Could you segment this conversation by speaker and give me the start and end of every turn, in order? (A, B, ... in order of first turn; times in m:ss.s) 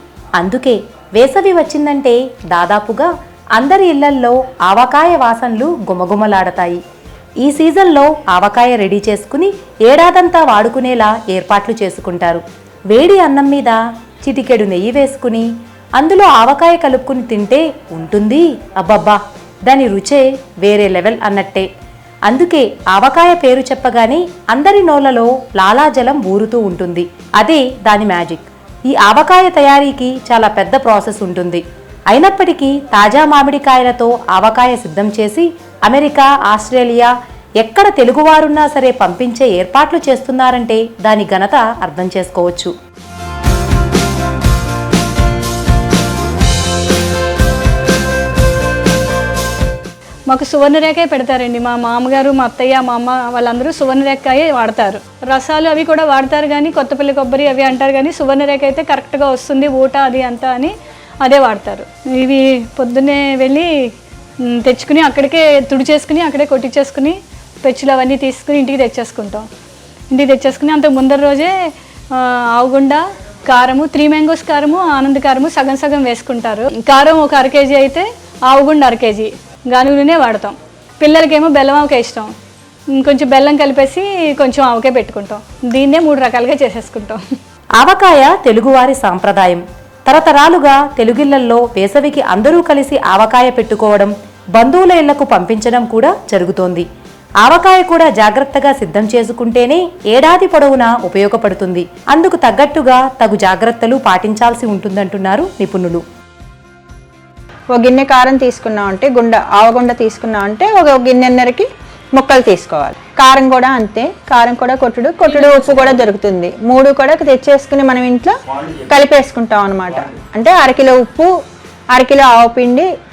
0:00.4-0:06.8 A
0:07.4-0:21.7 A
0:22.3-0:42.7 A
0:50.3-1:03.9 B
1:04.4-1:09.5 B
1:10.1-1:11.5 B
1:12.1-1:22.3 B
1:22.9-1:27.2 B
1:27.8-1:36.9 A
1:37.4-1:46.0 A
1:47.7-1:58.3 C
1:55.3-1:55.9 B
1:58.9-2:01.3 C
2:01.9-2:02.9 C